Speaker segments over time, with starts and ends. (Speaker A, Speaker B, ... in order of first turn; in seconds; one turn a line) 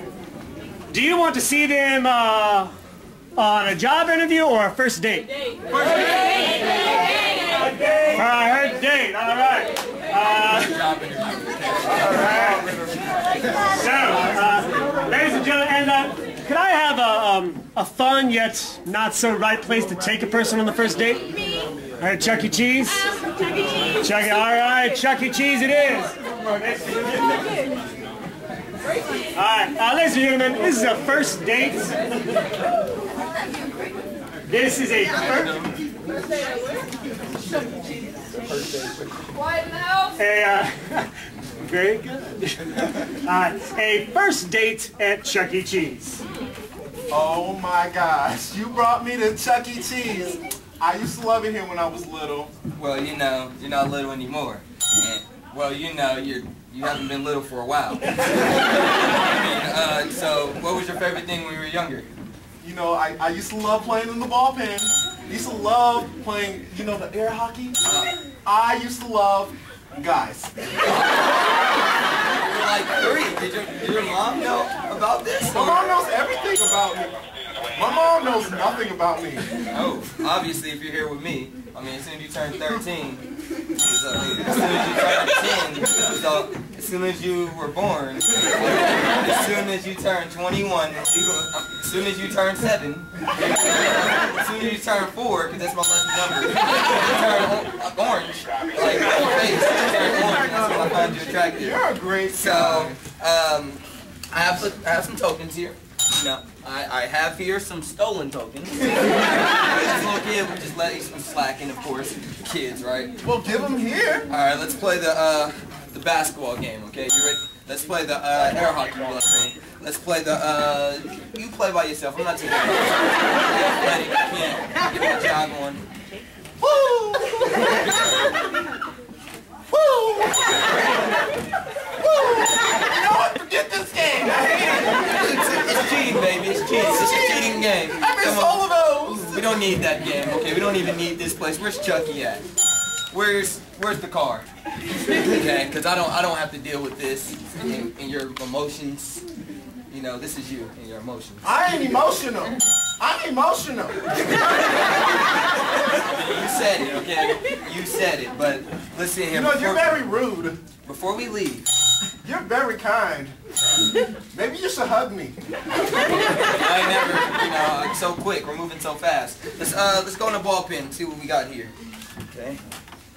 Speaker A: 0.9-2.7
Speaker A: 3.4-5.3
Speaker A: 5.8-6.2
Speaker A: 8.0-10.9
Speaker A: 11.9-12.7
Speaker A: 13.6-21.4
Speaker A: 22.0-23.1
Speaker A: 23.9-27.4
Speaker A: 29.3-32.0
Speaker A: 34.5-35.6
Speaker B: 35.2-35.8
Speaker B: 38.3-39.2
Speaker A: 40.1-46.2
Speaker C: 47.1-52.5
Speaker B: 52.8-62.1
Speaker C: 62.6-67.8
Speaker B: 67.8-68.1
Speaker C: 68.5-70.7
Speaker B: 70.9-71.4
Speaker B: 72.5-75.9
Speaker C: 75.5-77.1
Speaker C: 77.7-79.5
Speaker B: 79.7-83.2
Speaker B: 83.8-101.8
Speaker C: 99.9-103.0
Speaker B: 102.3-103.8
Speaker B: 104.3-113.1
Speaker C: 113.2-114.3
Speaker B: 114.3-125.8
Speaker C: 126.6-127.7
Speaker C: 129.7-130.6
Speaker C: 132.0-135.3
Speaker B: 134.9-142.4
Speaker C: 136.7-139.6
Speaker B: 143.1-144.5
Speaker B: 145.1-149.2
Speaker B: 149.9-151.6
Speaker C: 151.4-154.6
Speaker B: 156.0-160.0
Speaker C: 159.3-160.6
Speaker B: 160.8-161.7
Speaker C: 162.2-163.3
Speaker C: 164.3-165.4
Speaker B: 166.4-171.7
Speaker B: 172.3-172.6